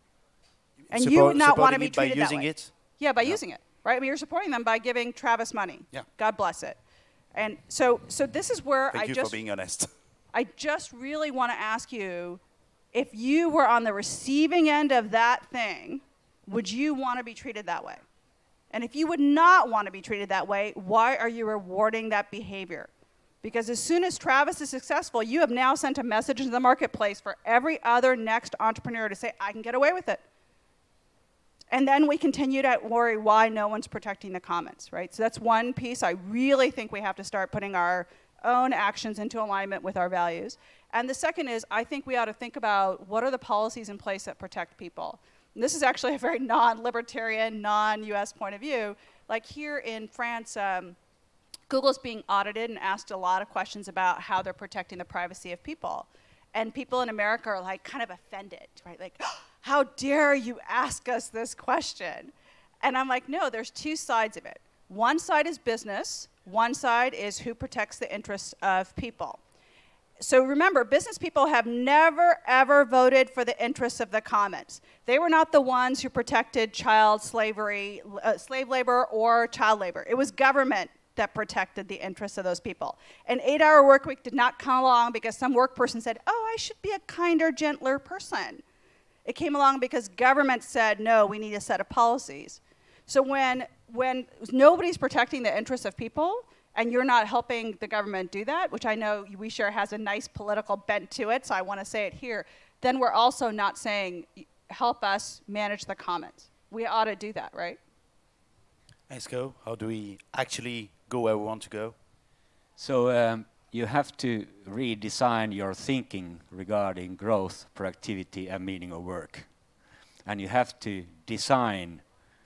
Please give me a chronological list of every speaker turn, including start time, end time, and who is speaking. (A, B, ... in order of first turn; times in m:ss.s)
0:00.8-0:03.4 A
0:00.9-0:06.8 B
0:07.3-0:09.4 B
0:08.9-0:09.9 A
0:10.3-0:12.4 B
0:12.9-0:18.0 B
0:18.7-0:22.9 B
0:23.4-0:30.2 B
0:31.7-0:51.0 B
0:51.7-1:09.4 B
1:10.2-1:28.6 B
1:29.2-1:47.8 B
1:49.1-1:51.9 A
1:52.8-1:59.5 C
2:00.2-2:02.0 C